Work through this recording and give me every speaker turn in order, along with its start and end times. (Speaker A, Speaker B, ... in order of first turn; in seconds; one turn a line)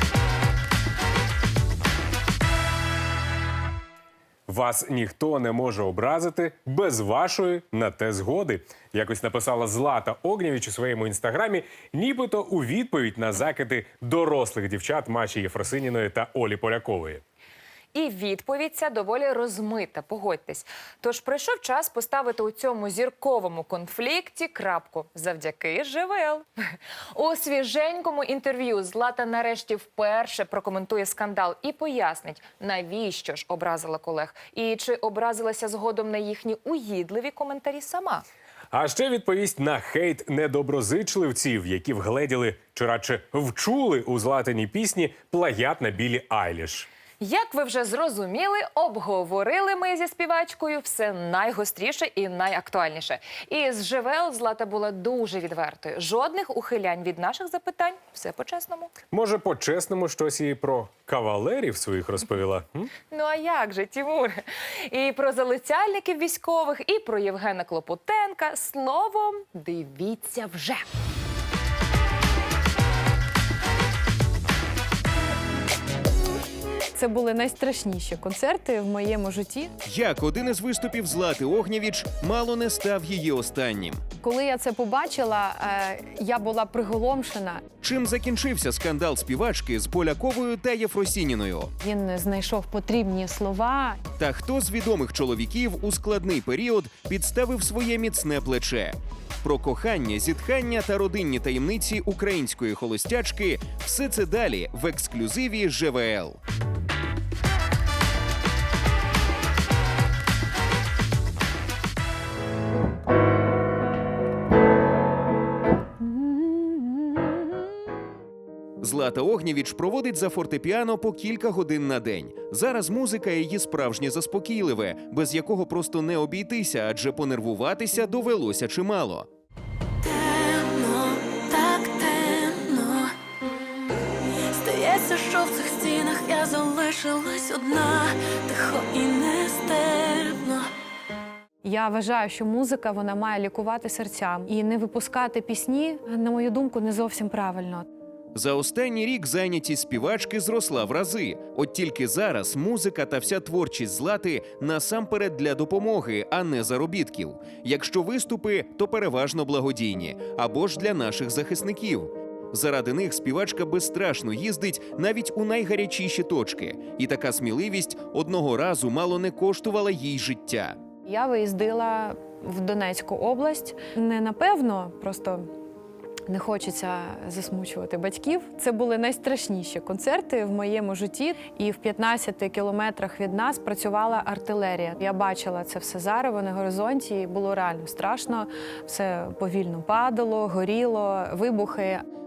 Speaker A: 4.5-17.2
Speaker B: 17.9-26.4
Speaker B: 27.1-38.2
Speaker A: 38.7-46.9
Speaker B: 47.2-58.9
Speaker A: 59.1-62.9
Speaker B: 63.1-70.8
Speaker C: 76.9-79.7
Speaker D: 79.8-84.0
Speaker C: 84.2-87.6
Speaker D: 87.8-91.7
Speaker C: 91.8-94.0
Speaker D: 94.2-106.4
Speaker C: 116.0-117.2
Speaker D: 118.8-129.3
Speaker E: 130.0-133.1
Speaker E: 134.5-140.7
Speaker C: 141.6-147.9
Speaker D: 148.3-170.8
Speaker C: 171.0-175.4
Speaker C: 176.3-192.0